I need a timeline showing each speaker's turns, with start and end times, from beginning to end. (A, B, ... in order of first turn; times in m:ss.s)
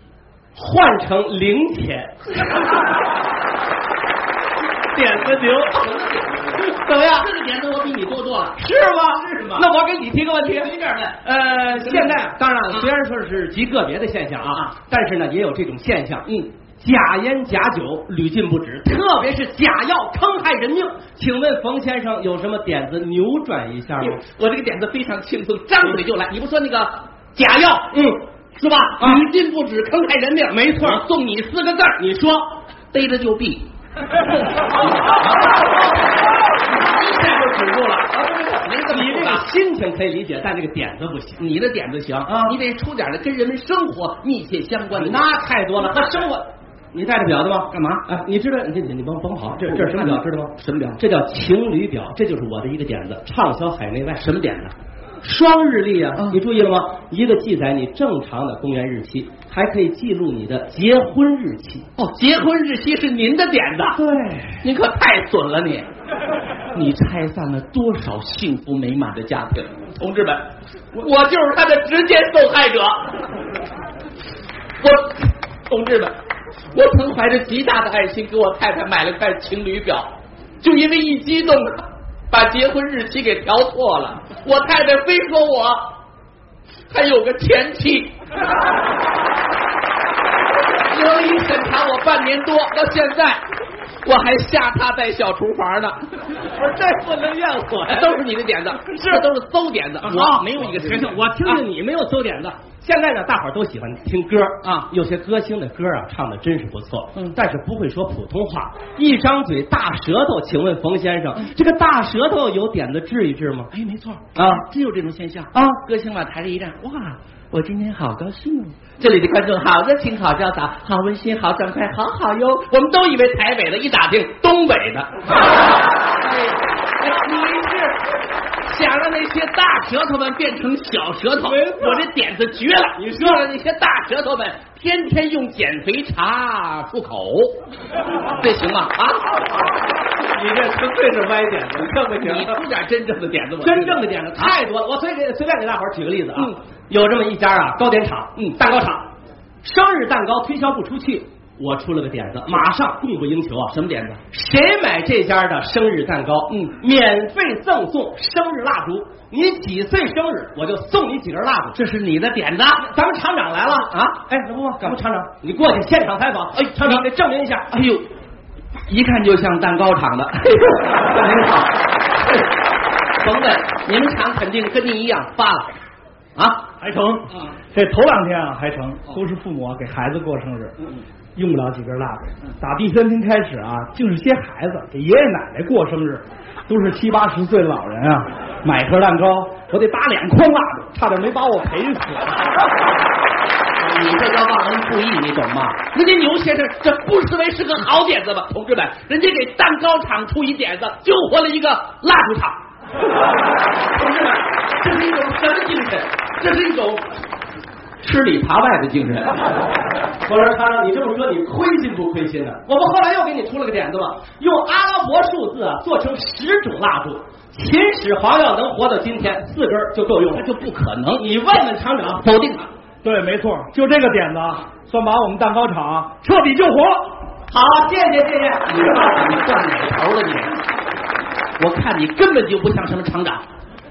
0:00.5-0:02.4 A
0:04.9-0:05.8 A
0:05.0-0:09.6 B
0:06.8-0:07.3 A
0:08.6-0:10.7 A
0:10.4-0:11.2 B
0:11.2-0:16.2 A
0:11.8-0:12.2 B
0:16.8-0:24.2 A
0:24.0-0:27.9 B
0:27.9-0:28.2 A
0:28.6-0:32.0 B
0:29.0-0:29.2 A
0:30.5-0:31.0 A
0:32.0-0:32.5 A
0:32.9-0:33.7 B
0:34.8-0:35.6 B
0:36.7-0:39.4 B
0:38.9-0:41.4 A
0:41.4-0:45.2 B
0:42.3-0:42.6 A
0:44.9-0:54.3 A
0:47.7-0:48.0 B
0:49.6-0:51.0 B
0:54.2-0:54.7 B
0:55.2-1:01.9 A
1:02.0-1:04.0 B
1:03.9-1:04.6 A
1:04.6-1:05.9 B
1:06.7-1:13.1 B
1:14.8-1:16.1 B
1:16.7-1:20.1 B
1:20.6-1:25.9 B
1:26.9-1:28.1 B
1:30.9-1:33.4 B
1:34.0-1:36.3 B
1:36.5-1:38.2 A
1:37.9-1:41.6 B
1:38.9-1:39.2 A
1:40.0-1:53.7 A
1:44.6-1:44.9 B
1:53.7-2:05.6 B
1:54.3-1:54.6 A
2:07.0-2:08.0 B
2:08.6-2:17.5 B
2:11.4-2:12.0 A
2:13.0-2:13.4 A
2:18.4-2:19.4 B
2:20.1-2:22.5 A
2:22.2-2:24.5 B
2:23.6-2:29.1 A
2:29.6-2:33.7 A
2:33.7-2:34.2 B
2:34.3-2:41.8 A
2:36.5-2:36.7 B
2:41.7-2:42.8 B
2:42.8-2:47.7 A
2:43.9-2:44.2 B
2:46.6-2:47.0 B
2:47.7-2:48.0 B
2:48.9-2:51.7 B
2:53.2-2:55.8 B
2:56.4-2:56.6 B
2:56.8-3:00.7 C
3:01.4-3:12.4 C
3:13.8-3:22.6 B
3:23.9-3:27.1 B
3:28.0-3:29.3 B
3:30.2-3:40.4 A
3:40.3-3:41.2 B
3:41.2-3:42.2 A
3:42.2-3:42.7 B
3:43.0-3:47.0 C
3:47.5-3:48.6 A
3:48.6-3:50.6 B
3:51.6-3:53.4 B